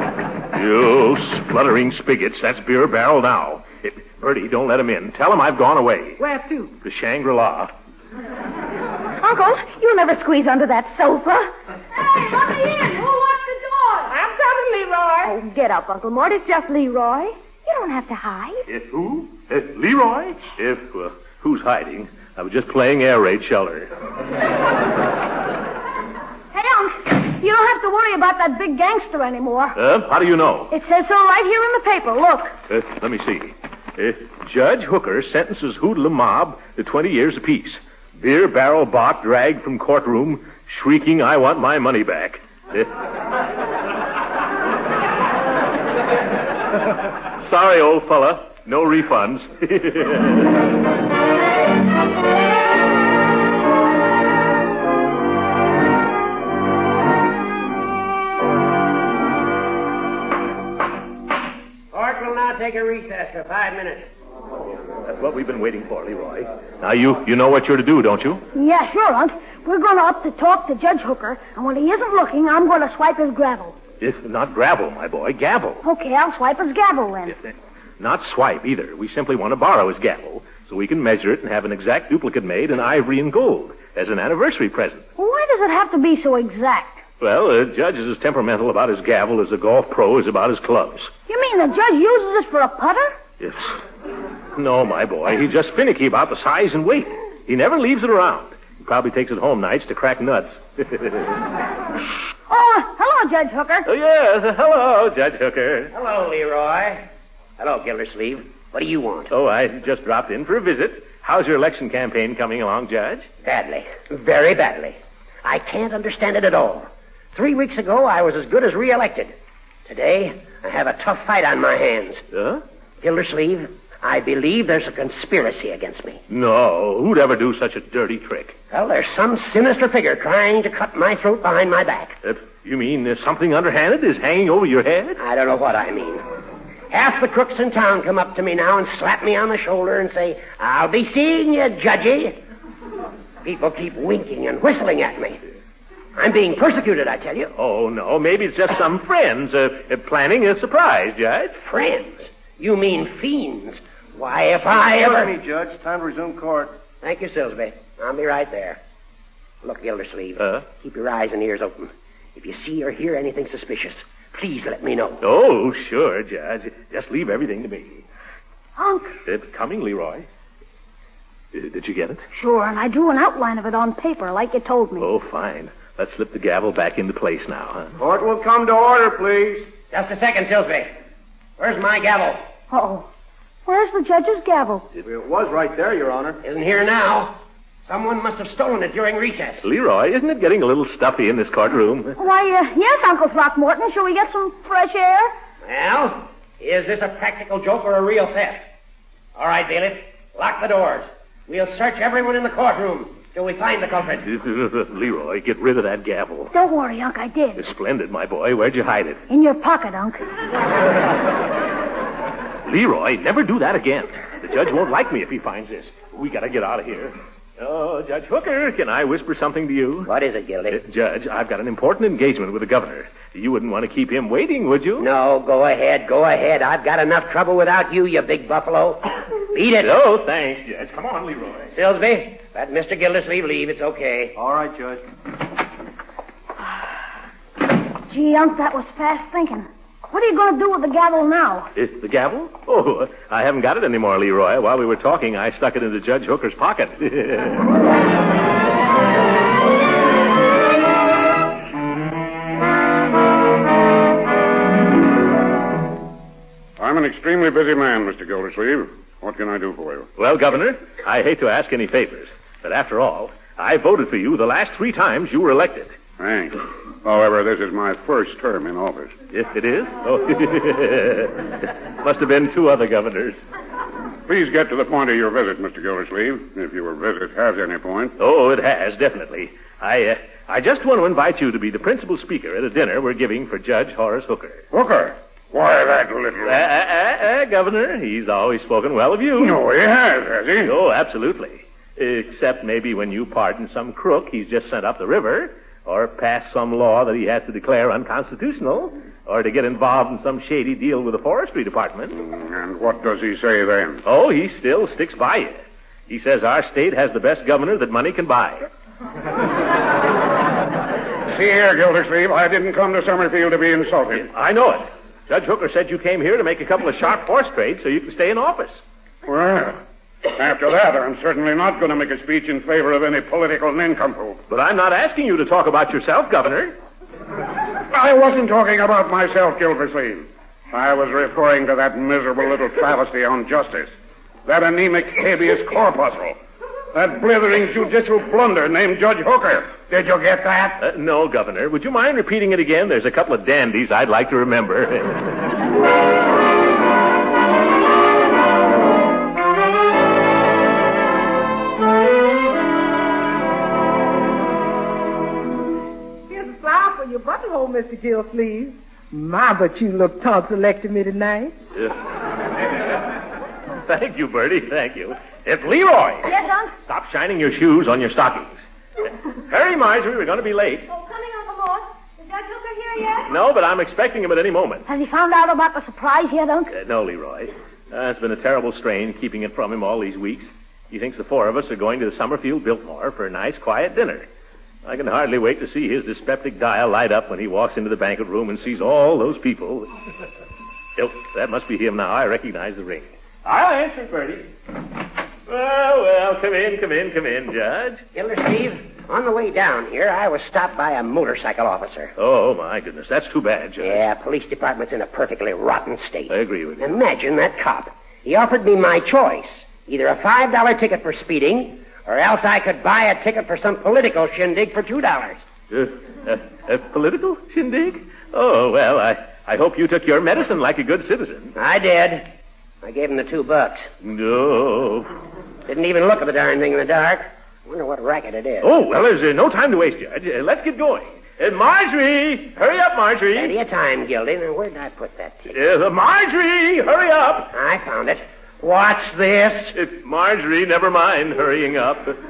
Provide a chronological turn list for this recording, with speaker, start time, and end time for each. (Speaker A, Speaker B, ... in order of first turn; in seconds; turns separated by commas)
Speaker A: 0.5-6.2, Speaker B: 6.2-6.7, Speaker A: 6.8-7.7, Speaker C: 9.2-11.5, Speaker D: 12.1-14.0, Speaker B: 14.1-15.3, Speaker C: 15.2-18.6, Speaker A: 18.7-23.9, Speaker D: 26.5-29.8, Speaker A: 29.8-30.7, Speaker D: 30.7-32.5, Speaker A: 32.7-42.9, Speaker A: 47.4-50.5, Speaker E: 61.9-64.1, Speaker A: 65.0-68.4, Speaker D: 68.5-73.8, Speaker A: 74.0-75.8, Speaker D: 75.8-77.4, Speaker A: 78.0-85.1, Speaker D: 85.2-87.0, Speaker A: 87.2-91.1, Speaker D: 91.3-93.2, Speaker A: 93.4-93.8, Speaker A: 94.5-101.4, Speaker D: 102.5-103.9, Speaker A: 103.9-105.9, Speaker E: 105.9-107.1, Speaker E: 107.6-109.3, Speaker A: 109.3-113.3, Speaker E: 113.4-119.3, Speaker E: 119.9-122.2, Speaker A: 122.3-122.6, Speaker E: 123.0-126.2, Speaker A: 126.3-128.6, Speaker E: 128.7-132.2, Speaker A: 132.2-135.2, Speaker E: 135.2-136.2, Speaker E: 136.9-142.4, Speaker E: 143.4-145.4, Speaker E: 146.2-147.5, Speaker A: 147.6-151.6, Speaker E: 151.6-155.3, Speaker F: 154.7-156.8, Speaker E: 157.0-158.8, Speaker E: 159.6-165.2, Speaker A: 165.2-168.0, Speaker D: 168.8-169.1, Speaker A: 169.3-170.3, Speaker A: 171.5-172.2, Speaker D: 172.3-175.1, Speaker A: 175.0-177.9, Speaker F: 178.0-179.7, Speaker E: 179.9-180.9, Speaker E: 181.6-182.4, Speaker D: 182.7-183.1, Speaker D: 183.7-184.9, Speaker F: 184.9-186.4, Speaker E: 186.4-189.7, Speaker A: 189.6-192.2, Speaker D: 192.2-195.3, Speaker E: 195.6-198.6, Speaker E: 199.4-204.3, Speaker A: 204.3-206.5, Speaker D: 206.5-207.6, Speaker A: 207.6-209.2, Speaker D: 209.3-210.2, Speaker A: 212.7-220.1, Speaker E: 220.1-220.8, Speaker A: 220.7-225.1, Speaker E: 225.0-229.9, Speaker A: 229.8-231.7, Speaker E: 231.7-234.3, Speaker F: 234.4-235.1, Speaker D: 238.1-241.7, Speaker A: 241.8-247.6, Speaker G: 256.8-260.1, Speaker A: 260.2-266.0, Speaker G: 266.2-269.1, Speaker A: 269.3-273.4, Speaker G: 274.3-278.1, Speaker A: 278.2-284.6, Speaker G: 284.7-286.7, Speaker A: 286.4-289.6, Speaker G: 289.4-290.8, Speaker A: 290.6-302.2, Speaker G: 302.2-304.0, Speaker A: 304.1-308.7, Speaker G: 311.3-314.3, Speaker A: 314.1-318.8, Speaker G: 319.3-319.8, Speaker G: 320.3-324.4, Speaker A: 324.5-326.8, Speaker G: 327.9-333.9, Speaker G: 334.5-336.4, Speaker G: 336.9-340.8, Speaker A: 340.8-345.4, Speaker B: 356.3-361.6, Speaker A: 363.9-366.3, Speaker D: 366.3-366.7, Speaker A: 366.9-368.6, Speaker A: 369.5-370.9, Speaker C: 370.9-373.2, Speaker A: 373.3-374.9, Speaker D: 374.9-376.7, Speaker A: 376.7-384.3, Speaker A: 384.9-389.9, Speaker A: 391.0-394.5, Speaker A: 395.5-398.0, Speaker E: 398.1-402.1, Speaker A: 402.2-404.0, Speaker E: 403.8-415.4, Speaker A: 406.3-407.0, Speaker A: 415.7-421.6, Speaker E: 421.6-422.3, Speaker E: 422.8-423.9, Speaker A: 424.0-425.1, Speaker E: 425.7-428.7, Speaker A: 428.6-433.6, Speaker E: 433.3-435.5, Speaker A: 435.5-437.5, Speaker E: 437.5-439.7, Speaker A: 439.7-442.2